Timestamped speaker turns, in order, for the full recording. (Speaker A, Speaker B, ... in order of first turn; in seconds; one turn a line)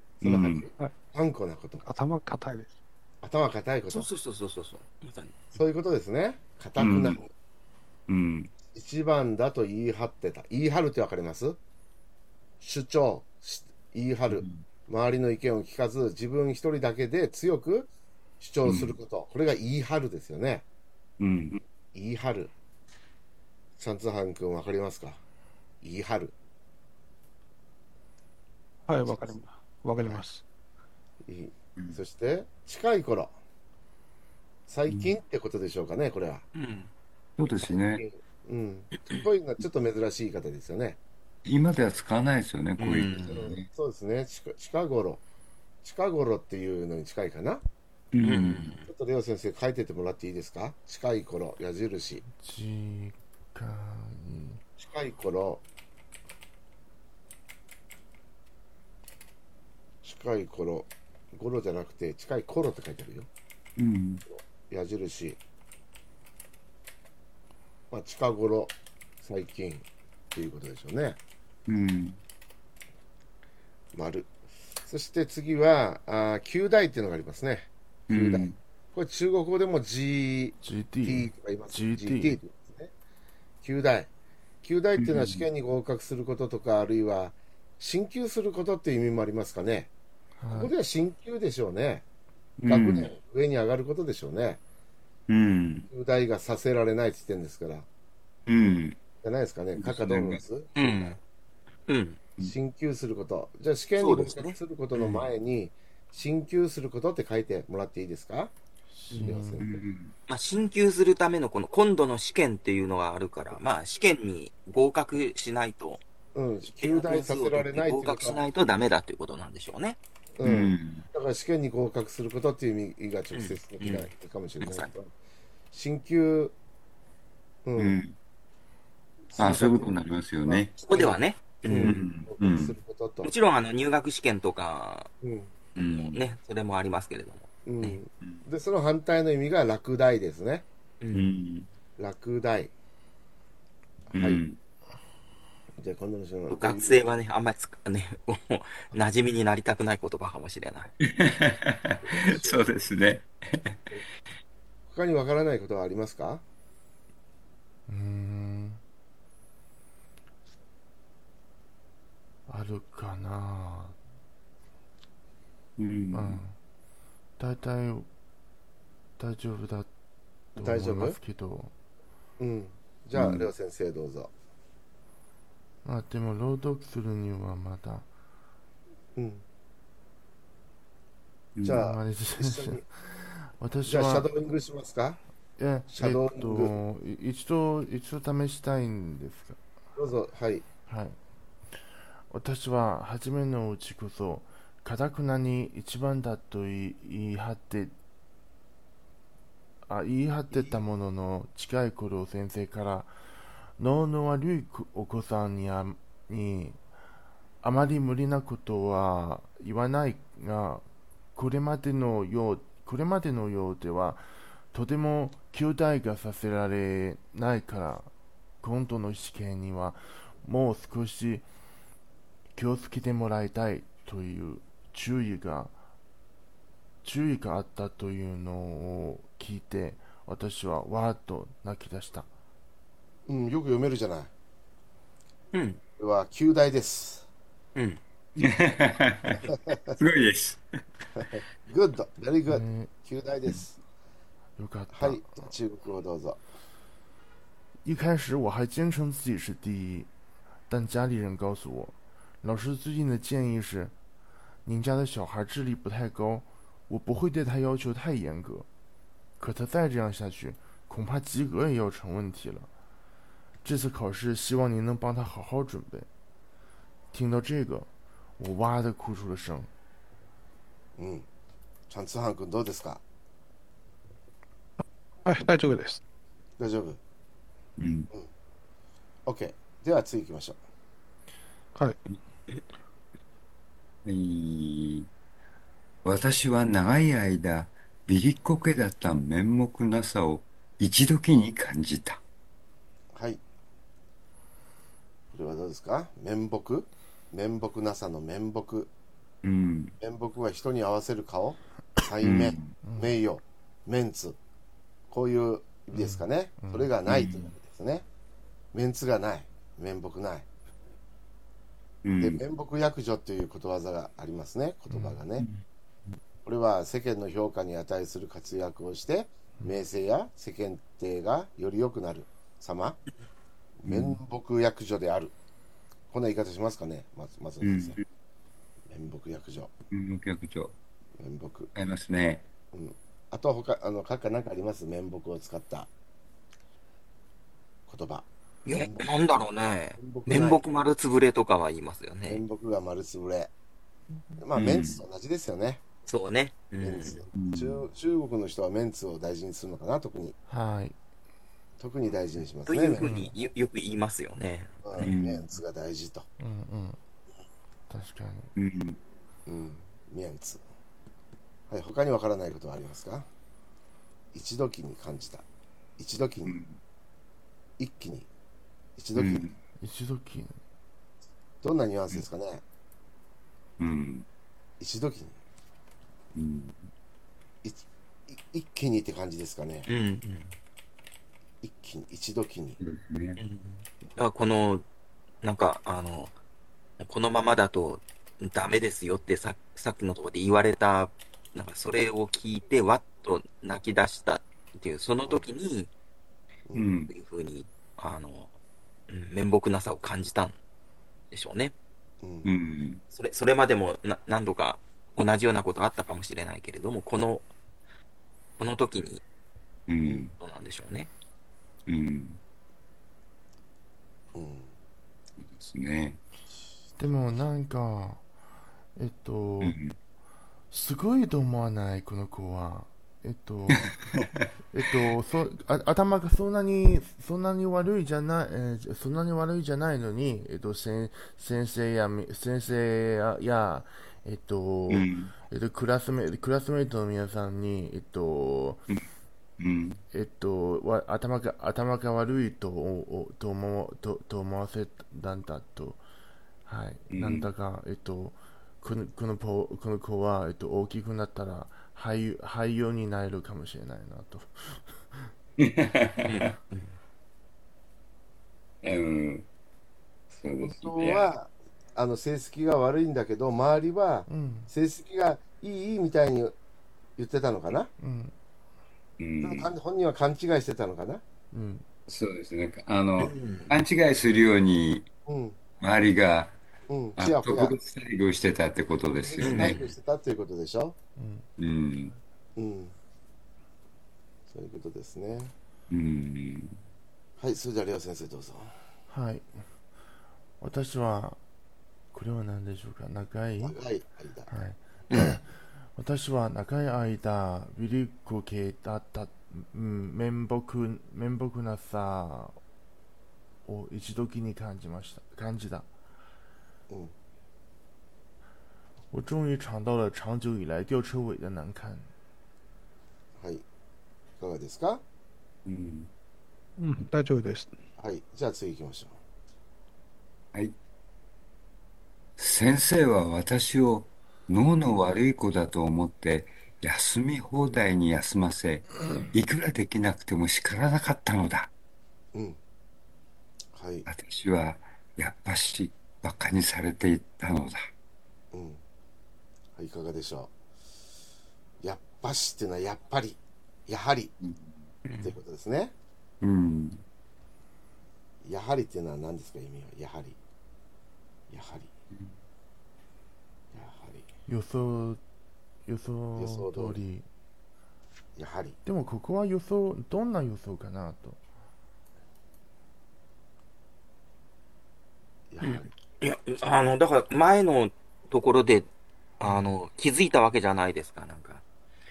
Speaker A: 0.2-1.9
Speaker B: 0.2-0.7
Speaker C: 1.8-2.7
Speaker A: 3.2-4.1
Speaker D: 3.9-5.5
Speaker A: 5.5-7.3
Speaker B: 6.8-7.2
Speaker B: 8.1-8.5
Speaker A: 8.7-11.6
Speaker A: 12.6-20.6
Speaker B: 14.3-14.6
Speaker B: 18.6-18.9
Speaker B: 21.2-21.6
Speaker A: 21.9-22.5
Speaker A: 23.8-25.2
Speaker A: 25.8-26.3
Speaker C: 28.9-30.4
Speaker A: 29.1-29.3
Speaker A: 30.0-30.2
Speaker A: 31.2-33.3
Speaker A: 34.7-36.5
Speaker D: 36.5-36.9
Speaker B: 37.4-38.0
Speaker A: 37.6-41.0
Speaker B: 41.5-43.7
Speaker D: 42.8-43.5
Speaker A: 43.2-45.2
Speaker A: 45.8-47.6
Speaker B: 48.1-48.7
Speaker D: 48.2-48.9
Speaker A: 48.9-52.2
Speaker E: 52.3-54.6
Speaker A: 54.8-55.6
Speaker A: 60.0-63.3
Speaker B: 63.8-64.2
Speaker A: 64.3-65.4
Speaker A: 67.9-71.2
Speaker B: 71.7-72.2
Speaker A: 73.9-82.9
Speaker B: 78.1-78.6
Speaker E: 80.6-82.4
Speaker A: 83.6-84.1
Speaker A: 84.6-89.9
Speaker B: 85.0-85.4
Speaker E: 90.4-90.7
Speaker A: 90.5-92.0
Speaker B: 92.6-93.1
Speaker A: 92.7-94.6
Speaker B: 95.3-95.9
Speaker A: 95.9-97.9
Speaker B: 98.5-99.0
Speaker A: 99.2-101.0
Speaker B: 99.8-100.4
Speaker D: 100.8-101.2
Speaker D: 101.9-102.2
Speaker A: 102.4-108.5
Speaker D: 104.0-104.6
Speaker B: 104.9-105.3
Speaker E: 108.9-109.6
Speaker A: 109.1-109.8
Speaker B: 109.6-110.1
Speaker D: 110.3-116.0
Speaker A: 116.3-118.4
Speaker D: 116.8-120.0
Speaker A: 120.4-125.1
Speaker B: 120.4-121.0
Speaker D: 123.3-124.1
Speaker D: 124.6-124.9
Speaker A: 125.7-126.5
Speaker A: 127.6-128.0
Speaker B: 127.8-128.1
Speaker A: 129.3-129.9
Speaker B: 129.4-131.0
Speaker A: 130.4-131.1
Speaker D: 130.8-132.0
Speaker A: 131.6-133.3
Speaker B: 131.7-132.7
Speaker D: 133.2-135.1
Speaker A: 135.2-135.5
Speaker B: 135.8-136.2
Speaker D: 135.8-138.0
Speaker A: 137.7-140.7
Speaker D: 141.0-141.3
Speaker B: 141.1-141.7
Speaker A: 142.0-142.7
Speaker A: 144.1-144.4
Speaker B: 144.1-144.6
Speaker A: 145.8-147.1
Speaker D: 146.5-150.9
Speaker B: 151.1-153.8
Speaker A: 152.0-152.7
Speaker A: 154.9-156.4
Speaker E: 157.9-158.8
Speaker E: 162.5-164.0
Speaker B: 165.8-166.4
Speaker E: 166.1-166.6
Speaker E: 167.4-168.1
Speaker E: 169.2-169.9
Speaker A: 170.6-171.2
Speaker E: 170.6-171.7
Speaker A: 172.4-174.3
Speaker B: 173.2-173.5
Speaker E: 175.8-178.1
Speaker A: 179.2-179.4
Speaker B: 181.6-181.8
Speaker A: 181.6-182.8
Speaker E: 181.7-184.3
Speaker A: 183.8-185.2
Speaker E: 185.6-189.6
Speaker A: 185.9-186.8
Speaker A: 189.9-190.7
Speaker E: 190.9-191.2
Speaker E: 192.3-197.9
Speaker E: 199.9-203.1
Speaker A: 200.5-200.8
Speaker E: 203.8-206.8
Speaker E: 207.6-218.1
Speaker E: 218.6-221.5
Speaker E: 222.5-225.8
Speaker E: 227.0-232.3
Speaker A: 233.3-234.3
Speaker D: 235.5-235.8
Speaker A: 236.0-237.3
Speaker D: 237.7-238.0
Speaker B: 238.4-240.6
Speaker A: 239.7-239.9
Speaker A: 241.1-243.8
Speaker E: 242.5-242.9
Speaker E: 244.6-245.5
Speaker A: 244.9-246.4
Speaker E: 247.8-250.1
Speaker E: 250.7-253.9
Speaker E: 254.6-258.7
Speaker E: 259.4-262.7
Speaker E: 263.6-266.1
Speaker E: 267.1-269.7
Speaker A: 271.0-271.2
Speaker A: 271.9-273.0
Speaker C: 275.2-276.0
Speaker A: 276.6-277.0
Speaker B: 277.8-278.1
Speaker A: 279.2-280.6
Speaker B: 284.0-285.1
Speaker B: 286.0-292.2
Speaker A: 293.1-293.4
Speaker A: 295.3-298.9
Speaker B: 299.4-299.9
Speaker A: 300.0-304.4
Speaker B: 302.2-302.7
Speaker E: 302.8-303.1
Speaker A: 305.1-308.1
Speaker E: 305.9-306.9
Speaker B: 307.1-307.5
Speaker A: 308.7-310.5
Speaker B: 312.0-312.4
Speaker A: 312.2-315.4
Speaker E: 314.9-315.2
Speaker A: 316.4-323.0
Speaker A: 323.8-325.3
Speaker B: 323.9-324.2
Speaker A: 326.1-328.0
Speaker B: 327.6-328.0
Speaker A: 328.9-329.7
Speaker B: 329.9-330.7
Speaker A: 331.2-331.7
Speaker B: 331.7-332.4
Speaker A: 332.7-335.9
Speaker A: 337.9-339.1
Speaker D: 338.6-342.4
Speaker A: 340.0-340.6
Speaker A: 342.3-343.5
Speaker A: 344.4-345.8
Speaker B: 344.5-345.0
Speaker D: 346.1-347.2
Speaker A: 346.8-350.3
Speaker B: 347.4-347.8
Speaker E: 350.5-350.9
Speaker A: 351.8-353.3
Speaker D: 352.6-355.1
Speaker E: 353.0-353.3
Speaker A: 354.8-356.3
Speaker B: 355.0-355.4
Speaker E: 356.4-357.0
Speaker E: 357.9-358.5
Speaker B: 358.6-359.0
Speaker A: 359.4-360.6
Speaker A: 361.7-363.3
Speaker A: 364.3-365.4
Speaker A: 366.0-366.6
Speaker B: 366.4-366.8
Speaker A: 367.8-368.3
Speaker A: 369.0-369.5
Speaker B: 369.1-369.6
Speaker E: 369.8-370.6
Speaker A: 371.6-372.6
Speaker B: 373.8-374.2
Speaker A: 374.8-375.4
Speaker B: 376.3-376.9
Speaker A: 377.6-379.9
Speaker D: 379.9-380.5
Speaker A: 381.6-382.8
Speaker B: 382.8-383.4
Speaker D: 383.4-384.8
Speaker D: 385.4-386.3
Speaker D: 387.0-395.9
Speaker B: 396.7-397.1
Speaker D: 397.1-398.5
Speaker D: 399.1-400.6
Speaker D: 401.3-401.7
Speaker A: 402.2-402.5
Speaker B: 402.4-403.0
Speaker D: 403.1-407.5
Speaker D: 408.6-409.2
Speaker B: 409.9-410.3
Speaker D: 410.4-411.1
Speaker B: 411.9-412.4
Speaker A: 414.3-414.7
Speaker B: 415.5-416.2
Speaker E: 417.0-418.2
Speaker E: 418.9-419.8
Speaker B: 419.6-419.9
Speaker E: 420.7-423.9
Speaker B: 423.8-424.4
Speaker E: 424.7-438.9
Speaker B: 434.9-435.3
Speaker B: 439.6-440.0
Speaker E: 440.1-446.0
Speaker E: 446.6-455.3
Speaker B: 447.1-447.5
Speaker B: 455.6-456.4
Speaker D: 456.2-456.9
Speaker B: 458.8-459.5
Speaker B: 460.3-461.3
Speaker A: 460.6-466.5
Speaker E: 464.3-464.7
Speaker A: 467.2-467.9
Speaker E: 468.0-468.3
Speaker B: 469.2-469.7
Speaker A: 469.4-471.2
Speaker E: 471.5-471.9
Speaker B: 472.1-475.1
Speaker D: 473.2-473.7
Speaker A: 475.2-475.6
Speaker B: 475.8-476.6
Speaker A: 476.9-477.8
Speaker B: 477.2-479.8
Speaker A: 479.2-481.0
Speaker D: 479.4-479.9
Speaker E: 481.2-481.5
Speaker B: 481.6-482.1
Speaker A: 482.6-482.9
Speaker A: 484.5-485.5
Speaker B: 485.9-486.8
Speaker A: 487.4-488.7
Speaker E: 489.1-489.5
Speaker E: 490.6-491.4
Speaker E: 492.1-493.8
Speaker A: 493.6-494.5
Speaker E: 494.5-502.6
Speaker E: 503.6-505.9
Speaker E: 509.1-512.1
Speaker A: 513.4-513.6
Speaker A: 514.4-515.0
Speaker B: 515.6-516.1
Speaker C: 516.8-517.7
Speaker A: 518.0-519.2
Speaker B: 522.4-531.7
Speaker A: 533.7-534.1
Speaker B: 534.0-537.9
Speaker A: 538.5-538.8
Speaker A: 539.8-540.5
Speaker A: 541.8-544.3
Speaker B: 544.4-544.7
Speaker D: 545.0-545.3
Speaker A: 545.2-545.9
Speaker B: 546.4-547.0
Speaker A: 548.4-550.4
Speaker A: 551.5-551.9
Speaker A: 553.7-554.3
Speaker E: 554.5-555.2
Speaker E: 555.9-557.3
Speaker A: 556.4-557.0
Speaker A: 558.4-558.8
Speaker E: 558.8-561.4
Speaker A: 565.5-565.9
Speaker D: 565.6-568.9
Speaker D: 569.4-571.6